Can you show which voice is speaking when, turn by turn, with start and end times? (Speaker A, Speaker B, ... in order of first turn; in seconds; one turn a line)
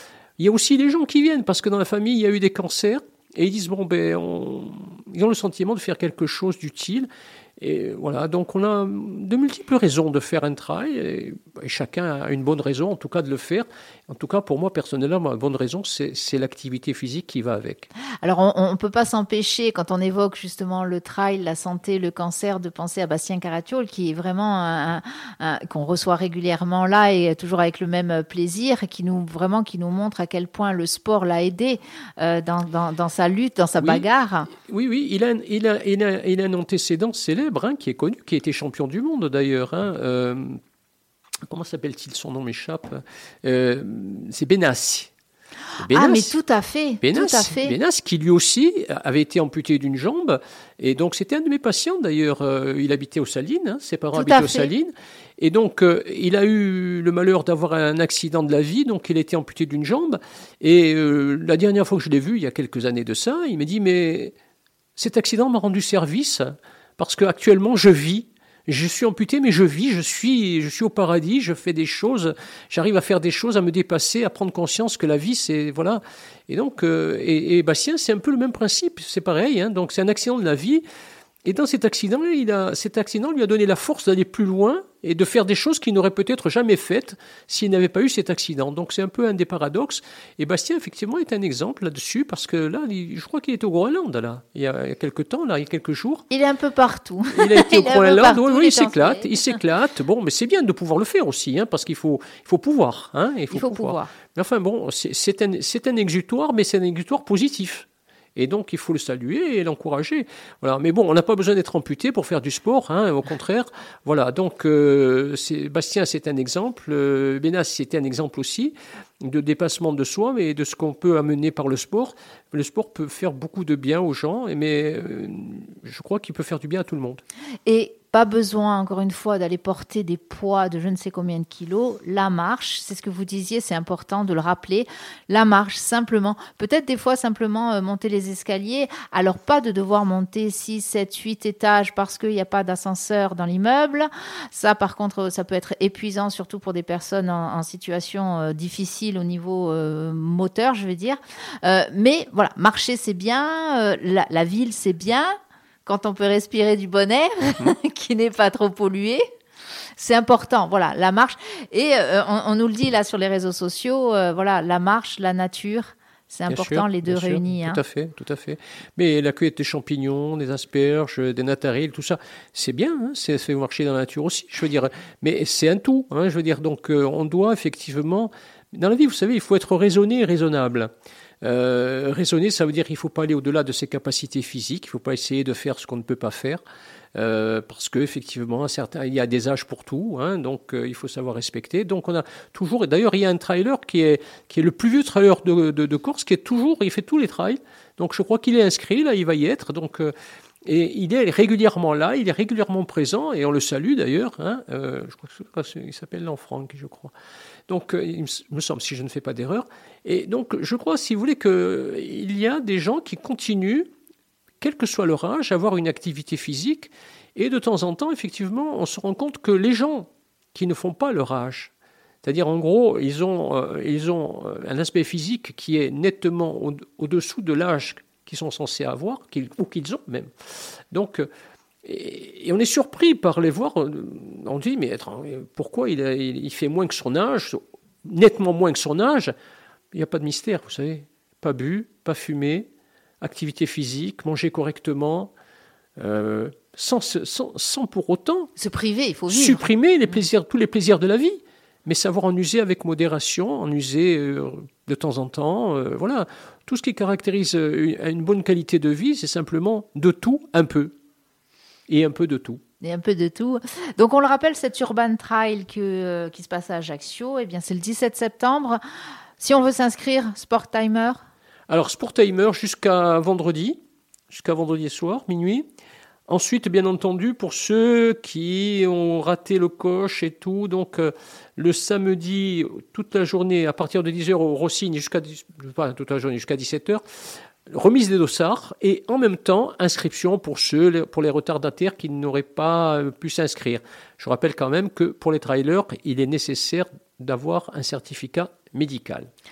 Speaker A: 0.4-17.9
Speaker B: 18.2-34.5
Speaker A: 33.8-40.6
Speaker A: 41.5-45.1
Speaker A: 45.8-46.4
Speaker B: 45.9-47.8
Speaker A: 47.0-64.3
Speaker B: 54.1-54.7
Speaker A: 65.0-80.8
Speaker A: 81.5-96.2
Speaker B: 96.3-99.4
Speaker A: 97.3-127.2
Speaker B: 103.5-104.1
Speaker B: 127.7-155.3
Speaker B: 155.9-159.2
Speaker B: 160.0-167.8
Speaker A: 166.5-180.9
Speaker A: 181.4-186.6
Speaker A: 187.2-200.1
Speaker A: 200.7-207.1
Speaker A: 207.7-213.9
Speaker A: 214.6-221.7
Speaker A: 222.2-230.3
Speaker A: 230.9-231.3
Speaker A: 231.8-239.3
Speaker A: 239.9-242.7
Speaker A: 243.2-245.3
Speaker A: 246.0-248.5
Speaker B: 248.6-249.7
Speaker A: 249.3-260.9
Speaker A: 261.9-262.6
Speaker B: 262.8-268.8
Speaker B: 269.4-271.2
Speaker A: 271.7-275.7
Speaker A: 276.3-287.0
Speaker A: 287.7-299.3